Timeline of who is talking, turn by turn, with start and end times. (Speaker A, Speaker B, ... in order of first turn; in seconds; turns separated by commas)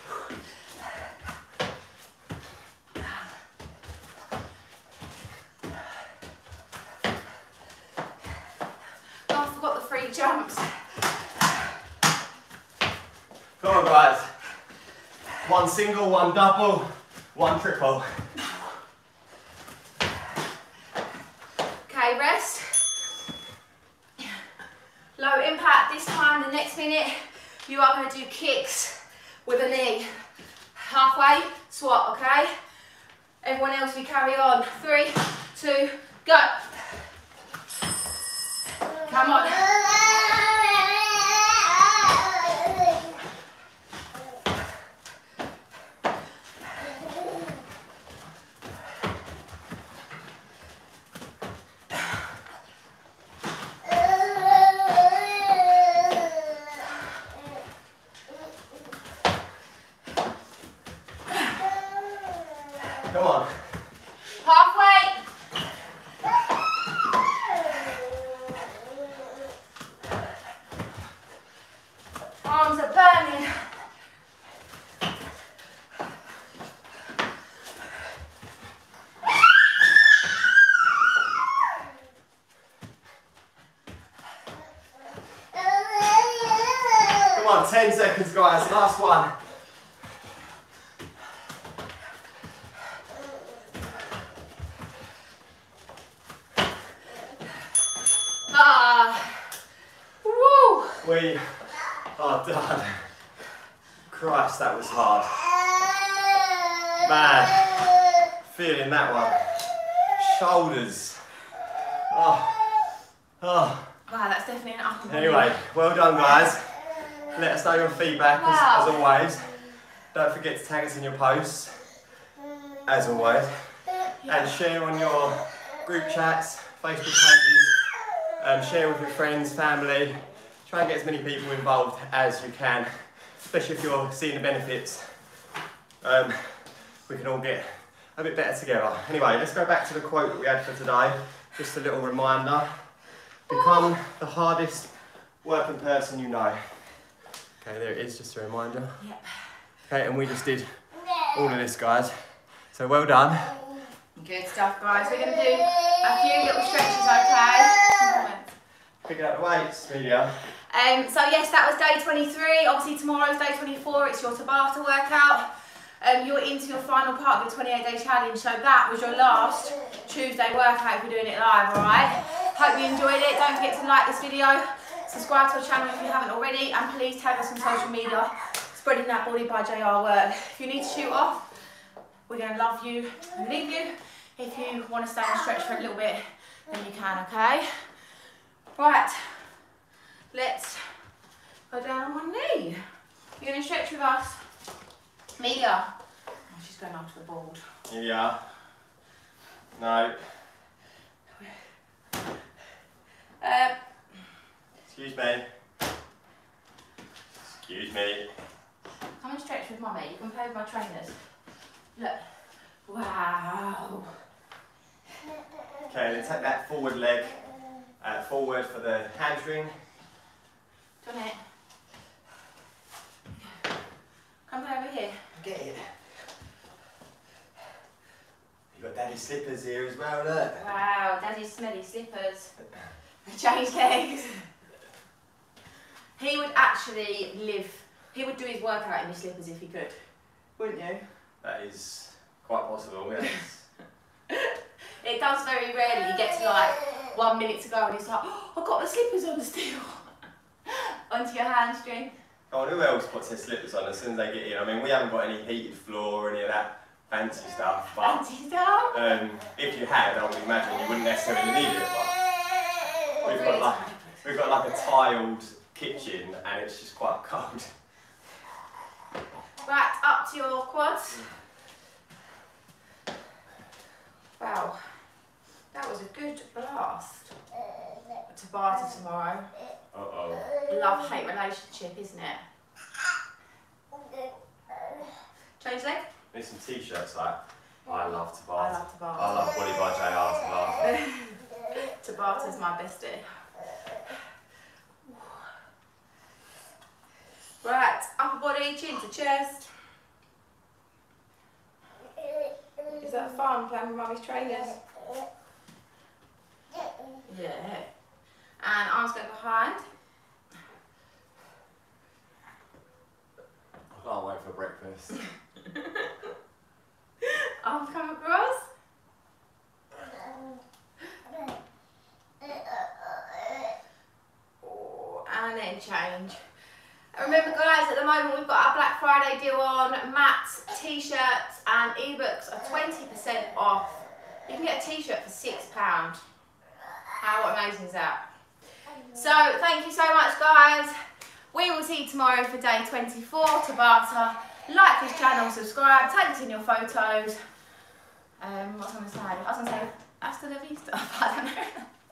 Speaker A: 9.3-11.1, Speaker B: 13.6-14.3, Speaker B: 15.4-18.4, Speaker A: 21.9-22.9, Speaker A: 25.1-30.1, Speaker A: 30.7-32.5, Speaker A: 33.4-36.7, Speaker A: 39.0-40.0, Speaker B: 63.0-63.6, Speaker A: 64.4-65.2, Speaker A: 72.4-73.8, Speaker B: 87.2-89.3, Speaker A: 98.5-99.5, Speaker A: 100.2-101.0, Speaker B: 101.0-103.0, Speaker B: 104.1-105.4, Speaker B: 106.9-111.2, Speaker B: 112.1-112.8, Speaker B: 113.4-113.9, Speaker A: 114.1-115.5, Speaker B: 115.1-119.5, Speaker A: 118.3-119.0, Speaker B: 120.1-121.8, Speaker B: 122.8-127.8, Speaker A: 124.2-124.5, Speaker B: 128.4-135.2, Speaker B: 136.0-142.8, Speaker B: 143.5-146.8, Speaker B: 147.6-149.0, Speaker A: 149.0-149.4, Speaker B: 149.9-152.1, Speaker B: 152.7-153.6, Speaker A: 154.2-158.5, Speaker B: 159.0-160.3, Speaker A: 160.7-181.5, Speaker A: 182.3-187.7, Speaker A: 188.7-189.5, Speaker A: 190.3-190.9, Speaker A: 191.7-192.8, Speaker A: 193.4-194.4, Speaker A: 195.4-195.9, Speaker A: 196.5-197.6, Speaker B: 197.9-198.4, Speaker B: 199.7-200.2, Speaker A: 203.4-203.7, Speaker B: 204.8-205.4, Speaker B: 207.4-208.3, Speaker A: 209.2-211.2, Speaker A: 211.9-214.1, Speaker B: 215.9-217.4, Speaker B: 218.0-219.7, Speaker A: 221.0-221.4, Speaker A: 224.4-225.2, Speaker B: 225.3-225.9, Speaker B: 228.7-230.6, Speaker A: 230.5-232.5, Speaker A: 233.2-234.5, Speaker A: 236.2-241.1, Speaker B: 241.4-243.7, Speaker A: 245.0-250.1, Speaker A: 250.7-252.1, Speaker B: 252.5-258.2, Speaker A: 258.0-259.0, Speaker B: 258.9-262.2, Speaker A: 263.2-264.2, Speaker B: 263.2-267.7, Speaker A: 269.6-271.2, Speaker A: 274.4-274.9, Speaker A: 275.7-277.3, Speaker A: 278.3-279.5, Speaker B: 279.9-280.5, Speaker A: 280.6-282.4, Speaker A: 285.6-286.1, Speaker B: 286.3-290.9, Speaker A: 288.6-289.4, Speaker A: 290.9-293.3, Speaker A: 297.6-299.7, Speaker A: 302.9-304.8, Speaker A: 307.3-307.9, Speaker A: 308.6-309.8, Speaker B: 313.9-315.2, Speaker A: 315.7-316.1, Speaker A: 317.6-318.7, Speaker A: 324.6-326.4, Speaker A: 327.1-336.2, Speaker A: 337.2-340.9, Speaker A: 341.5-347.4, Speaker A: 348.4-351.8